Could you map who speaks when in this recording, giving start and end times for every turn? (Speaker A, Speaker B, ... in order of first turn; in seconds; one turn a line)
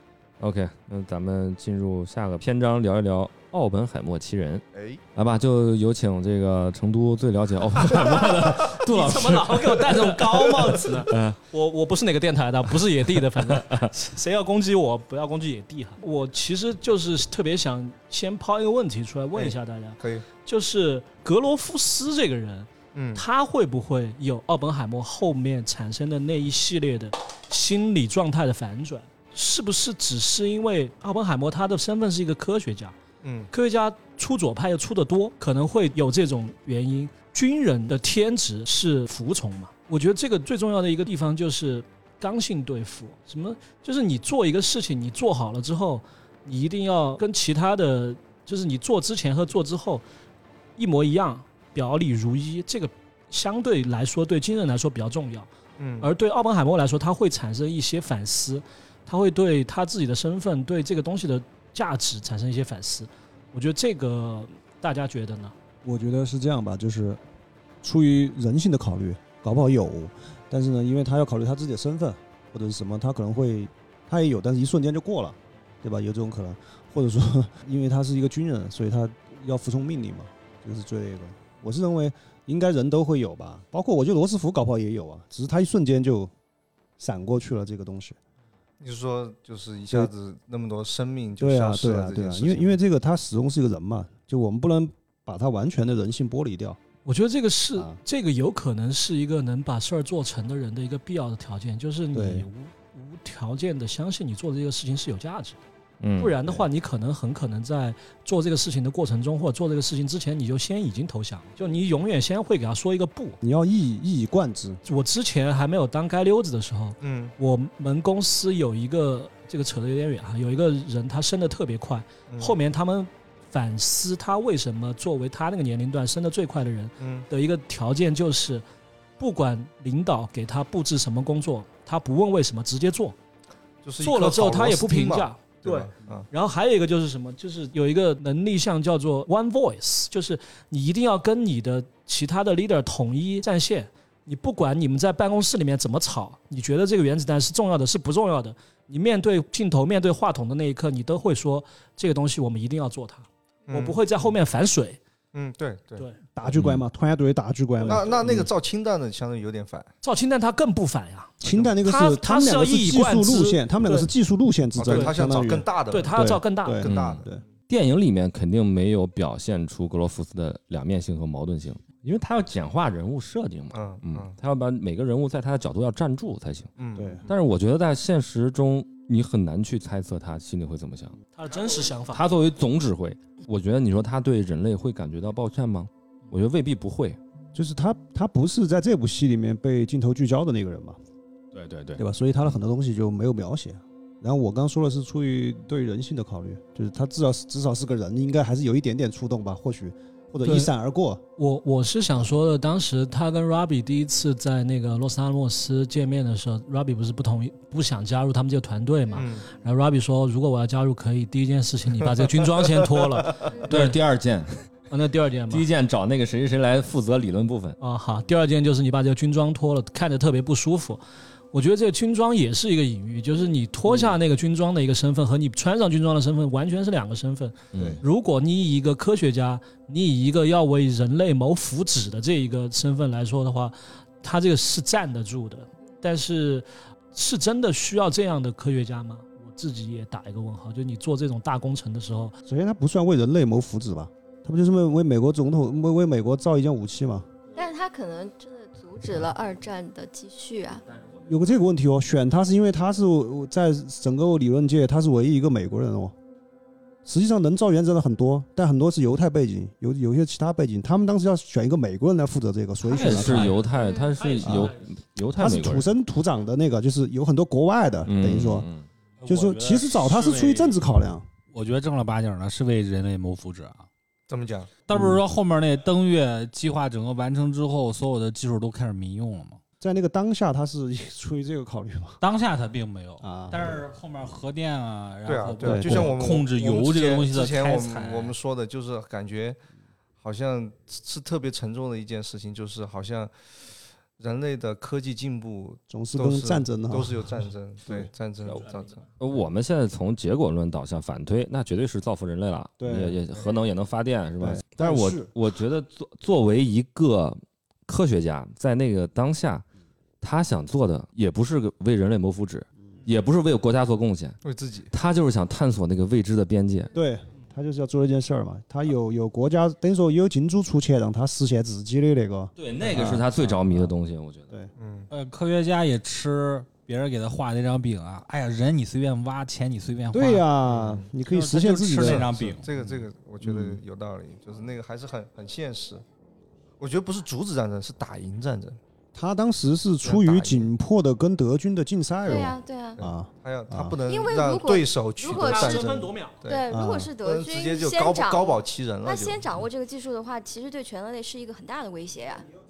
Speaker A: 0.4-4.6
Speaker B: 4.7-5.0
Speaker A: 5.2-11.4
Speaker C: 8.3-33.0
Speaker A: 13.3-13.9
Speaker B: 19.4-20.2
Speaker B: 22.9-23.2
Speaker B: 33.2-33.5
Speaker C: 33.5-50.0
Speaker C: 50.8-55.5
Speaker B: 55.8-56.1
Speaker C: 56.0-65.5
Speaker D: 65.8-67.2
Speaker D: 67.8-86.3
Speaker D: 87.0-88.2
Speaker B: 88.8-92.8
Speaker D: 91.4-96.8
Speaker C: 97.0-105.6
Speaker D: 102.1-102.5
Speaker A: 106.0-106.4
Speaker C: 106.2-113.4
Speaker D: 113.4-114.8
Speaker C: 114.8-128.6
Speaker B: 117.0-117.3
Speaker B: 122.3-122.6
Speaker B: 127.0-127.3
Speaker C: 129.2-133.2
Speaker B: 133.8-136.3
Speaker C: 134.0-155.0
Speaker B: 153.7-154.0
Speaker B: 155.3-156.1
Speaker C: 156.0-156.2
Speaker D: 156.4-158.5
Speaker A: 156.5-156.8
Speaker C: 157.8-158.1
Speaker B: 157.8-159.9
Speaker C: 160.0-164.1
Speaker D: 161.4-167.4
Speaker B: 164.8-167.4
Speaker C: 165.9-166.9
Speaker A: 166.9-176.7
Speaker B: 173.7-174.3
Speaker B: 176.8-177.3
Speaker D: 177.0-177.2
Speaker A: 177.3-181.2
Speaker C: 181.3-182.3
Speaker A: 182.1-187.2
Speaker D: 187.5-191.0
Speaker A: 191.5-192.0
Speaker D: 192.0-201.2
Speaker C: 200.4-200.7
Speaker C: 201.4-214.0
Speaker B: 209.1-209.5
Speaker A: 213.7-214.7
Speaker C: 214.9-215.7
Speaker A: 215.5-217.8
Speaker C: 217.8-221.0
Speaker C: 221.5-242.3
Speaker A: 227.7-228.0
Speaker D: 227.8-228.0
Speaker D: 242.5-247.3
Speaker E: 247.6-250.8
Speaker A: 250.9-251.5
Speaker D: 251.3-256.1
Speaker D: 257.1-263.5
Speaker C: 262.9-264.9
Speaker A: 262.9-265.9
Speaker F: 263.0-263.6
Speaker E: 263.7-264.2
Speaker D: 264.4-264.7
Speaker D: 265.4-268.7
Speaker A: 268.1-268.9
Speaker F: 269.2-270.8
Speaker D: 269.3-271.3
Speaker F: 271.5-273.9
Speaker B: 274.3-274.7
Speaker F: 274.9-279.6
Speaker D: 274.9-275.2
Speaker D: 279.8-282.2
Speaker F: 282.2-288.3
Speaker D: 283.2-283.9
Speaker B: 285.2-289.6
Speaker D: 285.6-286.1
Speaker B: 290.2-293.6
Speaker B: 294.2-299.1
Speaker D: 295.9-298.1
Speaker A: 299.2-309.6
Speaker D: 302.8-303.2
Speaker D: 304.4-305.3
Speaker A: 310.2-314.4
Speaker B: 314.4-314.9
Speaker A: 314.9-316.9
Speaker D: 316.9-323.9
Speaker A: 322.6-324.5
Speaker B: 324.8-325.1
Speaker F: 325.1-330.5
Speaker D: 330.1-332.6
Speaker B: 330.7-331.1
Speaker F: 331.2-332.7
Speaker B: 332.0-336.0
Speaker D: 333.4-333.8
Speaker B: 336.8-338.8
Speaker D: 339.1-343.9
Speaker B: 340.0-340.7
Speaker E: 342.2-343.0
Speaker B: 343.0-346.7
Speaker E: 344.0-345.9
Speaker C: 345.4-346.4
Speaker E: 346.5-352.5
Speaker D: 346.7-347.1
Speaker B: 347.2-349.4